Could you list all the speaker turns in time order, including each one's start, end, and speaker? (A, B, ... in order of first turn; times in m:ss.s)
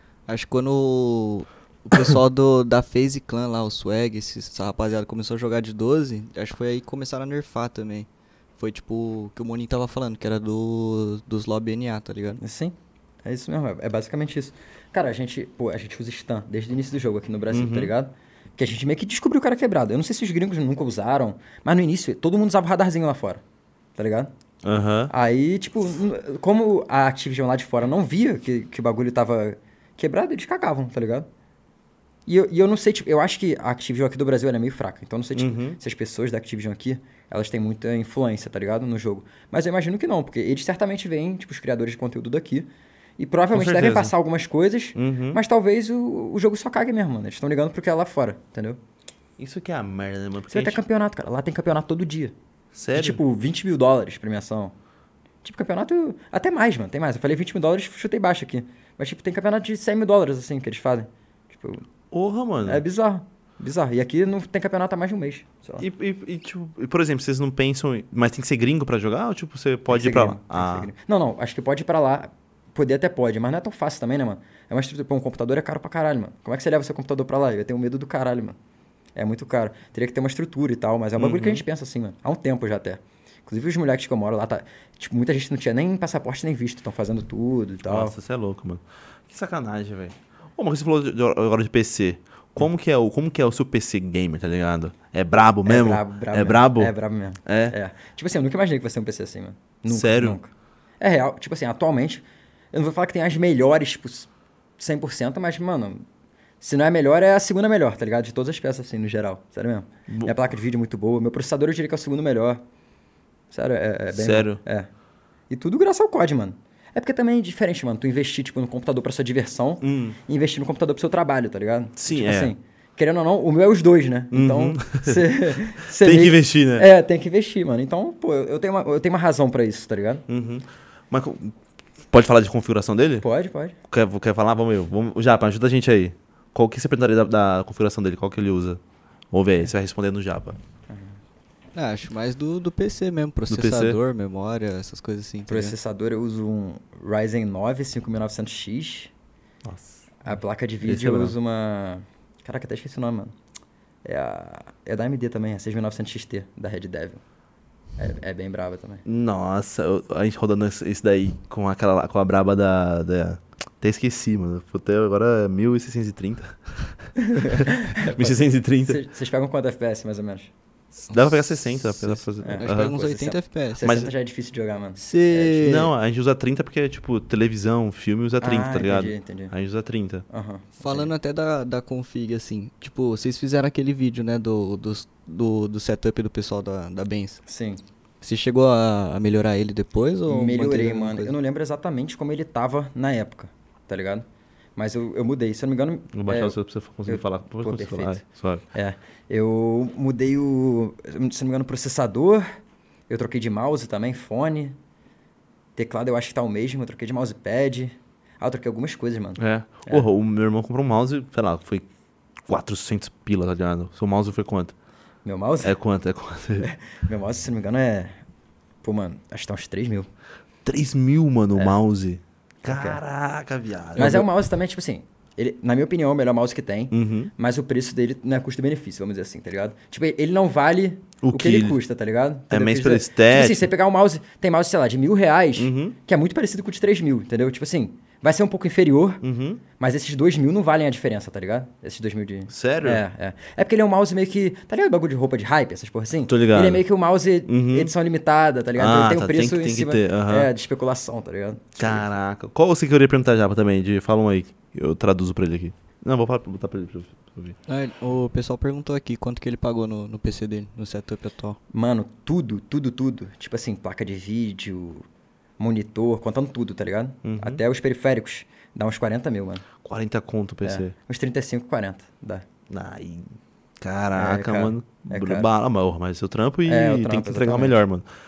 0:00.3-0:12.4 A
0:12.4-0:23.4 B
0:17.5-0:17.9 C
0:24.0-0:24.3 B
0:24.6-0:25.1 C
0:25.1-0:31.3 B
0:32.3-0:48.8 B
0:35.4-0:35.8 C
0:43.5-0:44.1 C
0:45.0-0:45.4 C
0:49.4-0:50.8 C
0:50.5-0:52.3 B
0:52.7-0:53.2 C
0:52.9-0:54.7 B
0:55.4-1:01.9 B
1:02.1-1:02.8 C
1:02.6-1:05.9 B
1:05.8-1:10.9 C
1:09.9-1:18.6 B
1:19.2-1:28.2 B
1:21.2-1:21.6 C
1:27.8-1:36.9 C
1:35.7-1:46.0 B
1:37.4-1:37.8 C
1:39.9-1:40.4 C
1:46.6-1:52.6 B
1:50.1-1:50.4 C
1:53.5-1:54.9 B
1:54.1-1:54.6 C
1:55.5-2:10.2 B
1:59.8-2:00.2 C
2:02.0-2:02.5 C
2:04.3-2:06.9 C
2:10.3-2:11.6 C
2:12.1-2:13.3 C
2:13.2-2:13.8 B
2:13.9-2:18.8 C
2:19.3-2:20.6 C
2:21.7-2:25.8 A
2:23.5-2:24.0 C
2:25.5-2:29.1 B
2:29.6-2:30.0 C
2:30.2-2:33.3 B
2:30.8-2:31.4 C
2:34.0-2:37.2 B
2:38.0-2:39.0 B
2:39.0-2:46.6 C
2:47.2-2:50.5 B
2:47.6-2:49.0 C
2:51.0-2:53.0 C
2:51.2-2:53.8 A
2:52.4-2:55.7 B
2:53.8-2:54.1 C
2:55.0-2:55.9 A
2:55.6-3:00.3 C
2:58.4-2:59.5 B
3:00.3-3:01.1 B
3:00.8-3:07.4 A
3:07.5-3:07.8 B
3:08.2-3:11.4 A
3:10.3-3:14.2 B
3:14.8-3:18.2 B
3:16.1-3:18.6 C
3:18.7-3:22.5 B
3:23.1-3:24.8 B
3:25.8-3:30.1 B
3:29.4-3:31.9 C
3:32.5-3:34.7 C
3:35.2-3:35.8 B
3:35.6-3:36.7 C
3:36.6-3:38.2 B
3:38.8-3:40.1 B
3:40.6-3:44.3 C
3:42.6-3:43.0 B
3:44.0-3:59.2 B
3:46.9-3:47.3 C
3:51.2-3:51.8 C
3:52.5-3:53.7 C
3:55.6-3:56.0 C
3:59.2-3:59.6 C
3:59.8-4:12.1 B
4:02.5-4:03.0 C
4:06.3-4:06.8 C
4:07.5-4:07.9 C
4:08.8-4:10.5 C
4:11.8-4:17.6 C
4:17.7-4:21.6 A
4:21.7-4:25.0 B
4:25.6-4:29.6 B
4:27.2-4:27.6 C
4:29.8-4:30.9 C
4:30.6-4:32.4 B
4:32.7-4:38.1 C
4:34.2-4:35.5 B
4:36.7-4:37.8 B